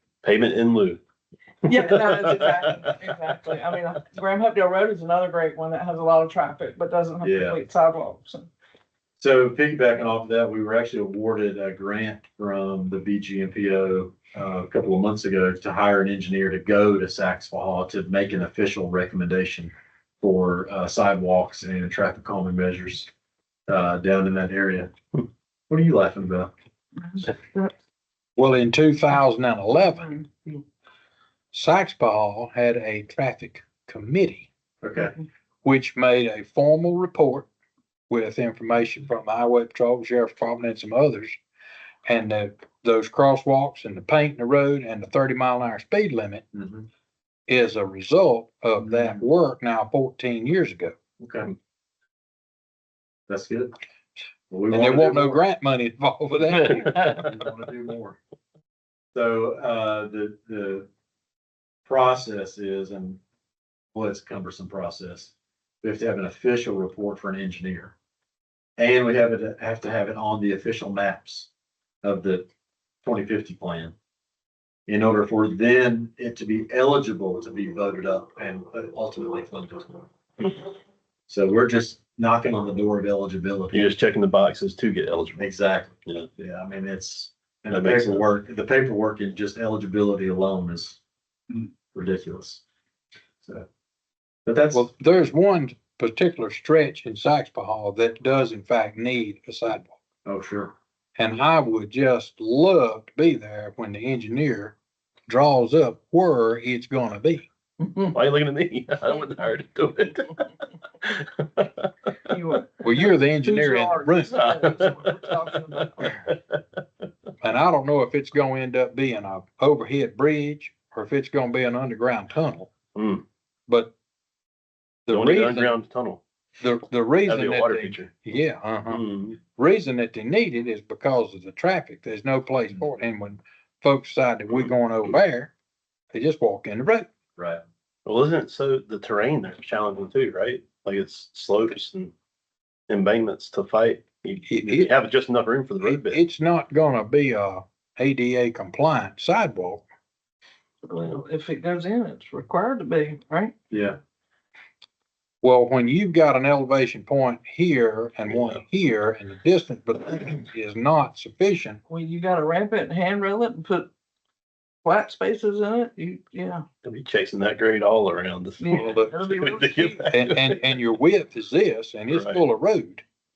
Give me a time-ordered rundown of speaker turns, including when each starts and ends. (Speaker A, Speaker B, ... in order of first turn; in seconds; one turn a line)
Speaker A: 0.2-1.0
Speaker B: 1.6-8.5
Speaker A: 1.7-2.8
Speaker C: 7.2-7.6
Speaker C: 9.2-23.1
Speaker C: 23.7-24.9
Speaker C: 25.7-26.5
Speaker B: 27.1-27.7
Speaker D: 28.4-30.2
Speaker B: 30.2-30.5
Speaker D: 31.5-34.5
Speaker C: 34.8-35.1
Speaker D: 35.6-37.5
Speaker D: 38.1-41.4
Speaker D: 42.0-46.5
Speaker C: 46.5-46.9
Speaker D: 47.5-50.9
Speaker C: 48.8-49.2
Speaker C: 51.2-51.5
Speaker C: 53.3-53.7
Speaker C: 54.5-55.4
Speaker D: 54.7-57.3
Speaker C: 57.1-58.2
Speaker C: 59.1-60.9
Speaker C: 61.9-63.2
Speaker C: 63.9-65.3
Speaker C: 65.8-67.9
Speaker C: 68.8-71.5
Speaker C: 72.0-72.5
Speaker C: 73.0-73.9
Speaker C: 74.9-80.6
Speaker C: 81.3-83.9
Speaker A: 83.7-85.4
Speaker C: 85.4-91.0
Speaker A: 87.7-88.2
Speaker C: 91.5-92.6
Speaker C: 94.5-94.8
Speaker D: 94.7-99.9
Speaker C: 100.2-100.7
Speaker D: 101.2-104.8
Speaker D: 105.3-107.5
Speaker A: 108.1-110.4
Speaker A: 111.0-111.9
Speaker B: 112.3-112.7
Speaker D: 112.8-114.6
Speaker B: 113.4-116.2
Speaker A: 114.3-115.2
Speaker A: 116.3-116.6
Speaker D: 117.4-122.7
Speaker A: 122.9-123.2
Speaker D: 123.7-123.9
Speaker D: 125.1-125.8
Speaker A: 125.1-126.2
Speaker D: 126.6-135.5
Speaker A: 127.2-128.1
Speaker A: 128.9-129.4
Speaker D: 136.1-137.1
Speaker C: 137.4-137.6
Speaker A: 138.1-142.1
Speaker A: 142.9-146.2
Speaker D: 144.5-144.9
Speaker D: 145.8-149.8
Speaker B: 150.8-153.5
Speaker C: 153.7-154.0
Speaker D: 155.4-161.8
Speaker B: 161.9-163.9
Speaker B: 164.8-166.6
Speaker A: 166.8-170.5
Speaker B: 168.6-170.1
Speaker D: 168.7-169.2
Speaker D: 170.1-173.0
Speaker A: 172.1-172.4